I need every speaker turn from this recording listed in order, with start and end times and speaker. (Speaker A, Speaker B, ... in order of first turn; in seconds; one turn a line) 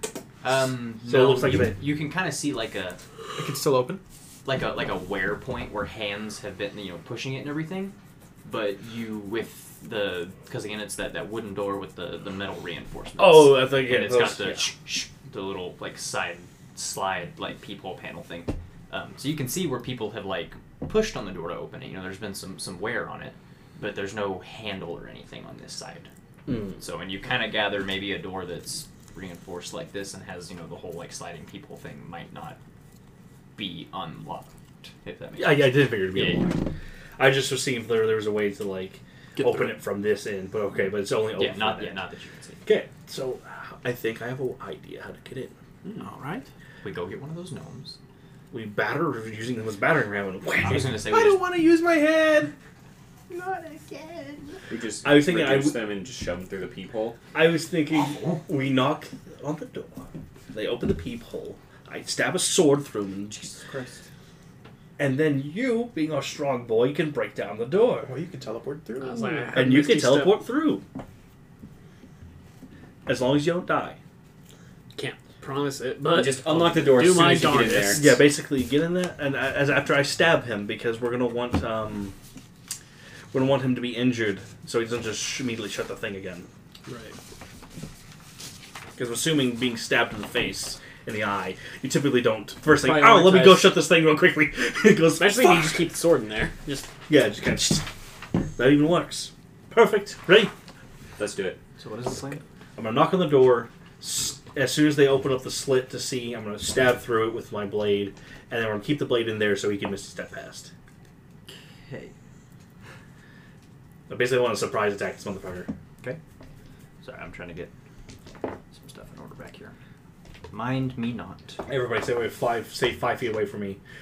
Speaker A: 0.4-3.0
Speaker B: 1.0-1.8
Speaker C: 3.4-4.0
Speaker A: 4.4-26.1
Speaker B: 13.2-14.7
Speaker B: 26.5-26.8
Speaker A: 26.8-32.6
Speaker A: 33.5-36.5
Speaker B: 35.4-36.6
Speaker B: 37.2-42.0
Speaker C: 39.4-39.7
Speaker A: 41.3-42.6
Speaker B: 42.6-45.5
Speaker C: 46.0-46.5
Speaker A: 46.8-48.0
Speaker B: 48.5-51.0
Speaker A: 50.6-51.4
Speaker C: 50.9-52.5
Speaker C: 53.3-54.6
Speaker D: 54.7-57.2
Speaker B: 55.0-55.8
Speaker B: 57.3-63.4
Speaker A: 57.9-58.4
Speaker D: 63.5-64.0
Speaker B: 65.0-68.1
Speaker C: 68.0-69.6
Speaker E: 69.0-70.4
Speaker B: 69.5-70.8
Speaker B: 73.0-74.0
Speaker E: 74.9-78.1
Speaker D: 76.1-78.1
Speaker B: 77.9-82.1
Speaker B: 83.3-86.5
Speaker E: 86.8-87.2
Speaker B: 89.0-95.8
Speaker E: 92.7-93.8
Speaker E: 95.2-96.9
Speaker B: 97.1-97.9
Speaker B: 98.5-100.5
Speaker D: 101.2-101.6
Speaker A: 101.8-102.4
Speaker B: 102.8-110.7
Speaker A: 111.5-112.1
Speaker B: 114.1-115.7
Speaker A: 117.0-117.7
Speaker A: 118.7-119.7
Speaker A: 120.5-121.6
Speaker B: 121.7-123.8